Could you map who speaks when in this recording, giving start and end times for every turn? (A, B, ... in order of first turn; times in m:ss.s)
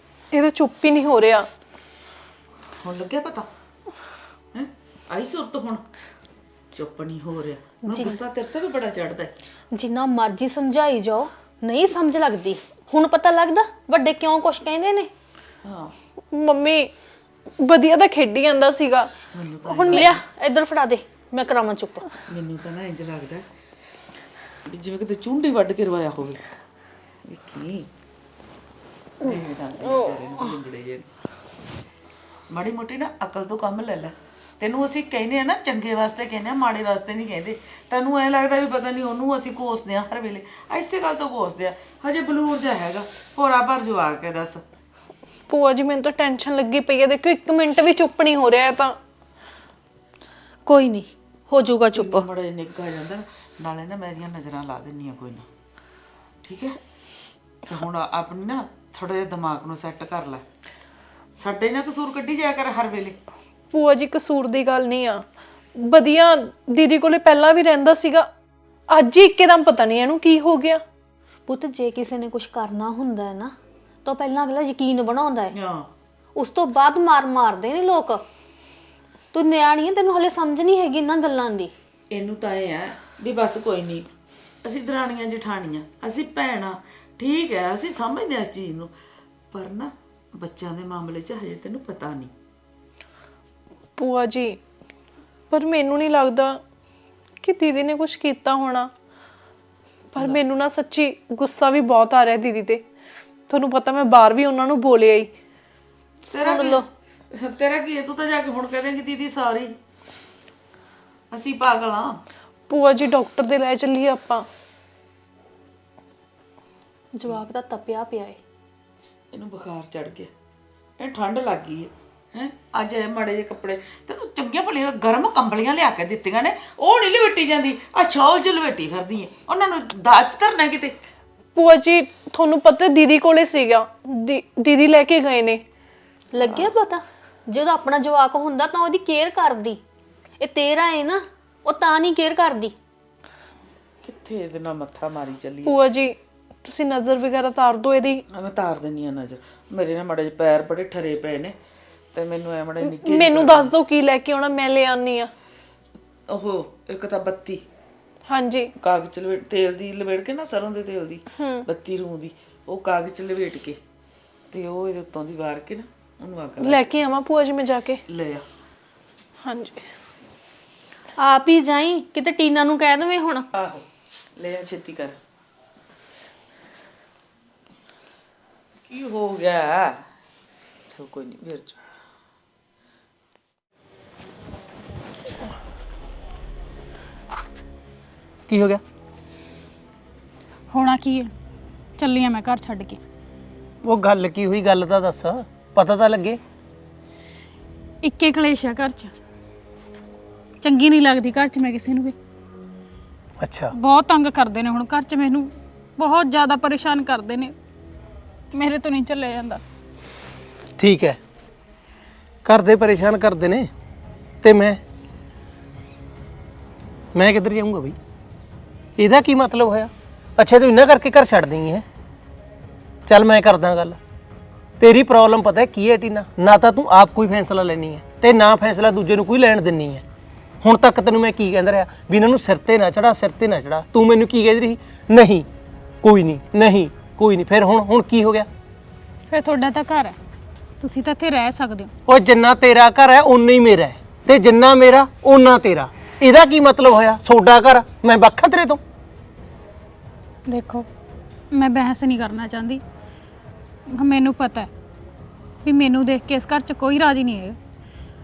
0:00.3-0:01.5 A
0:02.8-0:03.5 B
0:04.5-0:05.8 B
0:06.8-0:09.3 B
0:07.9-0:08.2 C
0:09.7-0:15.1 C
0:15.6-0:16.0 B
0:16.3-0:16.9 A
0:17.6-0:19.1 A
0:19.3-0:20.2 B
0:19.7-0:20.1 A
0:19.8-0:22.0 C
0:22.3-0:23.4 B
0:24.7-0:26.4 B
0:27.3-0:27.9 B
0:29.2-0:31.1 B
0:32.5-0:44.6 B
0:45.5-0:49.0 A
0:50.7-0:52.2 C
0:52.0-0:55.5 B
0:56.4-0:56.8 B
0:57.7-1:00.4 B
1:01.4-1:03.2 B
1:03.7-1:08.3 A
1:08.9-1:10.8 A
1:11.5-1:13.5 C
1:14.0-1:15.5 C
1:15.5-1:15.9 B
1:16.4-1:18.2 C
1:19.3-1:21.7 C
1:22.1-1:24.1 B
1:24.6-1:28.9 B
1:29.5-1:32.3 B
1:34.0-1:34.6 A
1:35.5-1:36.6 A
1:37.4-1:38.9 A
1:40.1-1:42.9 A
1:43.5-1:45.4 A
1:46.3-1:49.8 B
1:46.3-1:46.8 C
1:51.3-1:52.2 B
1:52.7-1:54.5 A
1:57.2-1:58.4 C
1:59.3-2:00.3 B
2:01.0-2:11.0 B
2:11.6-2:15.6 A
2:16.3-2:19.8 C
2:20.4-2:22.8 C
2:24.0-2:25.7 B
2:25.7-2:28.2 A
2:28.3-2:31.6 B
2:32.1-2:33.7 B
2:32.8-2:35.3 A
2:36.3-2:37.6 B
2:38.3-2:38.7 A
2:38.8-2:43.8 B
2:41.4-2:41.6 A
2:44.5-2:46.9 B
2:46.6-2:48.0 A
2:48.1-2:48.4 B
2:49.4-2:49.9 A
2:51.2-2:53.5 C
2:53.5-2:53.9 B
2:54.4-2:55.2 B
2:58.9-3:00.0 B
3:00.9-3:01.8 B
3:08.5-3:08.8 D
3:10.7-3:11.3 E
3:12.0-3:13.0 E
3:13.8-3:16.4 D
3:18.0-3:19.1 E
3:20.6-3:22.2 E
3:23.4-3:23.7 D
3:23.7-3:27.5 E
3:28.5-3:29.6 E
3:30.8-3:31.2 D
3:32.4-3:33.7 D
3:34.4-3:34.8 D
3:37.2-3:38.0 D
3:39.0-3:41.8 D
3:43.1-3:44.0 D
3:44.8-3:50.0 D
3:50.6-3:55.5 D
3:56.0-3:58.5 D
3:59.3-4:00.2 E
4:00.8-4:01.9 E
4:02.1-4:08.8 D
4:10.5-4:10.9 E
4:11.5-4:12.8 E
4:13.9-4:14.7 E
4:15.6-4:17.6 E